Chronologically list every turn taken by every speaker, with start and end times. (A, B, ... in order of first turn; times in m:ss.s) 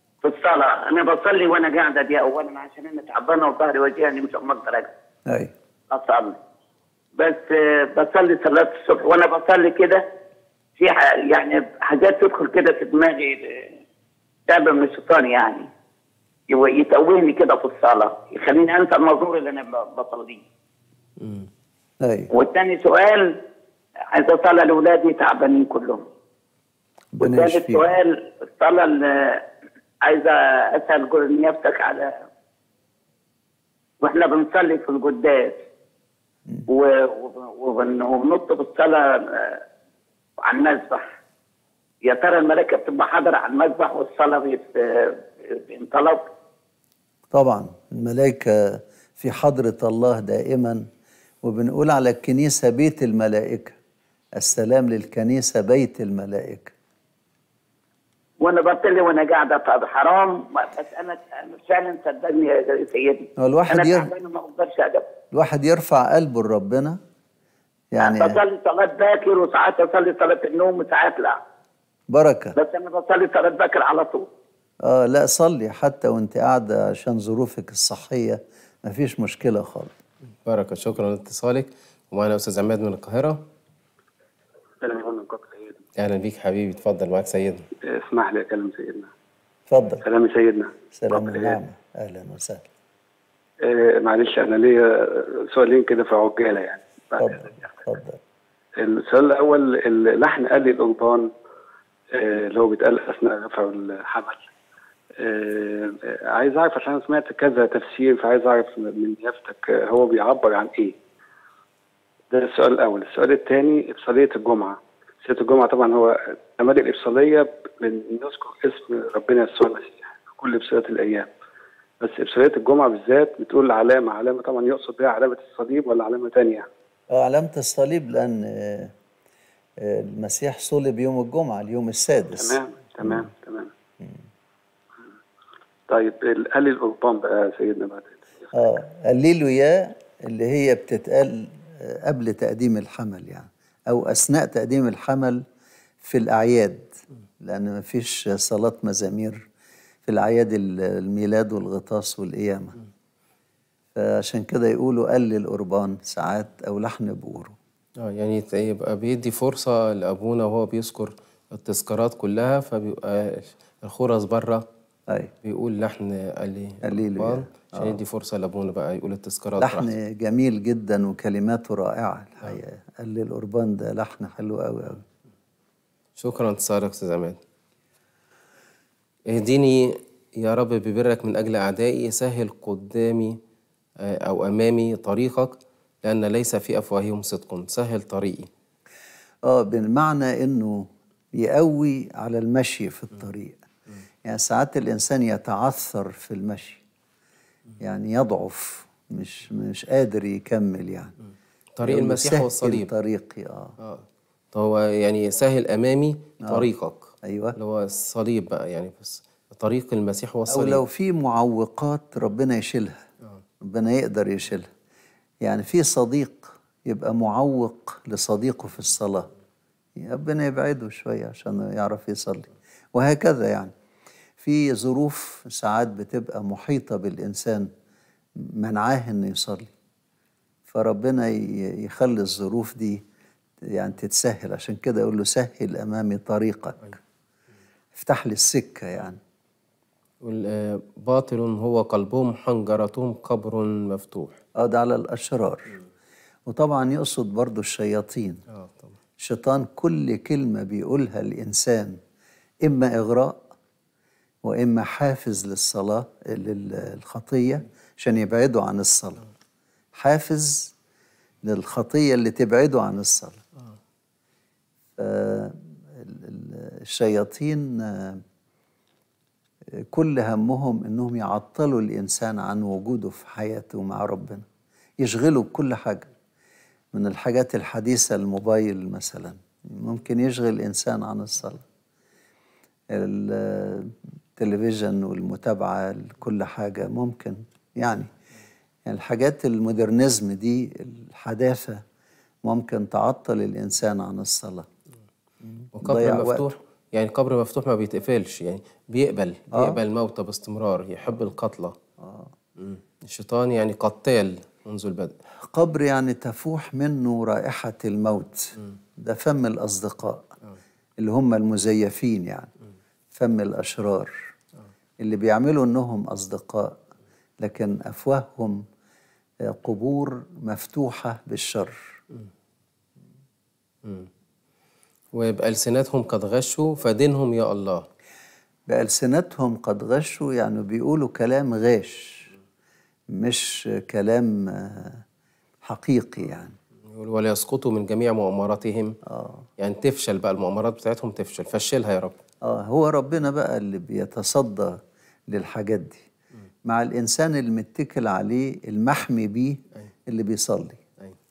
0:00.2-0:04.9 A
0:05.3-0:05.5 B
0:05.9-0:06.4 A
0:07.2-0:10.0 A
0:10.8-0:13.6 A
0:14.5-0:15.7 A
0:16.5-0:20.4 A
0:21.2-0:21.5 C
0:22.0-0:22.3 B
0:22.3-0:23.4 A
0:24.1-0:26.0 A
0:27.1-0:27.9 B
0:27.2-0:29.4 A
0:30.0-0:32.1 A
0:34.0-0:35.6 A
0:36.7-0:39.6 A
0:40.4-0:41.0 A
0:42.0-0:46.3 A
0:47.3-0:50.8 B
0:51.4-0:53.8 B
0:54.4-0:56.7 B
0:58.4-1:05.1 A
1:03.4-1:04.1 B
1:05.3-1:07.0 B
1:07.9-1:08.3 B
1:08.0-1:11.4 A
1:12.1-1:12.6 B
1:12.6-1:14.3 A
1:14.8-1:20.0 B
1:20.4-1:23.4 C
1:24.8-1:25.8 D
1:26.0-1:27.6 C
1:27.8-1:29.1 D
1:29.7-1:30.0 B
1:30.0-1:31.6 D
1:30.9-1:32.7 B
1:33.6-1:37.6 D
1:37.2-1:38.2 B
1:38.8-1:41.3 D
1:42.1-1:44.4 D
1:45.2-1:51.0 D
1:52.3-2:01.3 D
2:02.0-2:06.6 D
2:07.1-2:08.9 B
2:09.8-2:13.2 B
2:12.3-2:13.7 D
2:15.9-2:18.5 D
2:18.5-2:25.4 B
2:26.0-2:29.4 B
2:30.0-2:32.8 B
2:34.0-2:37.5 B
2:38.0-2:44.6 C
2:45.4-2:49.9 C
2:46.8-2:48.0 B
2:49.6-2:55.0 B
2:56.2-2:57.4 C
2:59.3-3:03.4 C
3:04.0-3:08.5 C
3:09.4-3:13.6 B
3:14.2-3:16.8 B
3:17.8-3:21.1 B
3:21.8-3:22.9 C
3:21.8-3:23.7 B
3:23.8-3:30.8 C
3:27.2-3:27.6 B
3:30.5-3:33.0 B
3:33.6-3:34.7 B
3:35.4-3:39.3 B
3:40.0-3:43.7 B
3:44.4-3:47.7 B
3:48.4-3:49.7 B
3:50.7-3:53.0 B
3:53.6-3:56.9 B
3:57.9-3:59.2 B
4:00.2-4:04.4 C
4:04.6-4:05.7 B
4:06.4-4:08.4 B
4:08.5-4:08.9 C
4:09.2-4:12.0 B
4:12.6-4:13.4 B
4:14.4-4:19.2 B
4:20.0-4:20.7 B
4:21.4-4:23.4 B
4:25.0-4:28.2 B
4:29.8-4:34.4 B
4:35.0-4:36.1 B
4:36.9-4:41.6 B
4:42.9-4:48.1 B
4:48.8-4:51.8 B
4:52.4-4:54.7 B
4:55.5-4:56.4 B
4:55.7-5:01.8 C
4:59.5-4:59.8 B
5:02.0-5:02.3 B
5:02.6-5:05.2 C
5:05.4-5:10.3 B
5:11.0-5:12.5 B
5:13.1-5:14.1 B
5:15.0-5:16.8 B
5:17.4-5:18.6 B
5:19.4-5:21.8 B
5:25.1-5:27.8 C
5:28.7-5:32.3 B
5:33.1-5:35.0 B
5:35.6-5:36.5 B
5:36.9-5:39.0 C
5:39.0-5:39.4 B
5:39.6-5:42.2 C
5:42.4-5:46.0 B
5:46.6-5:50.8 B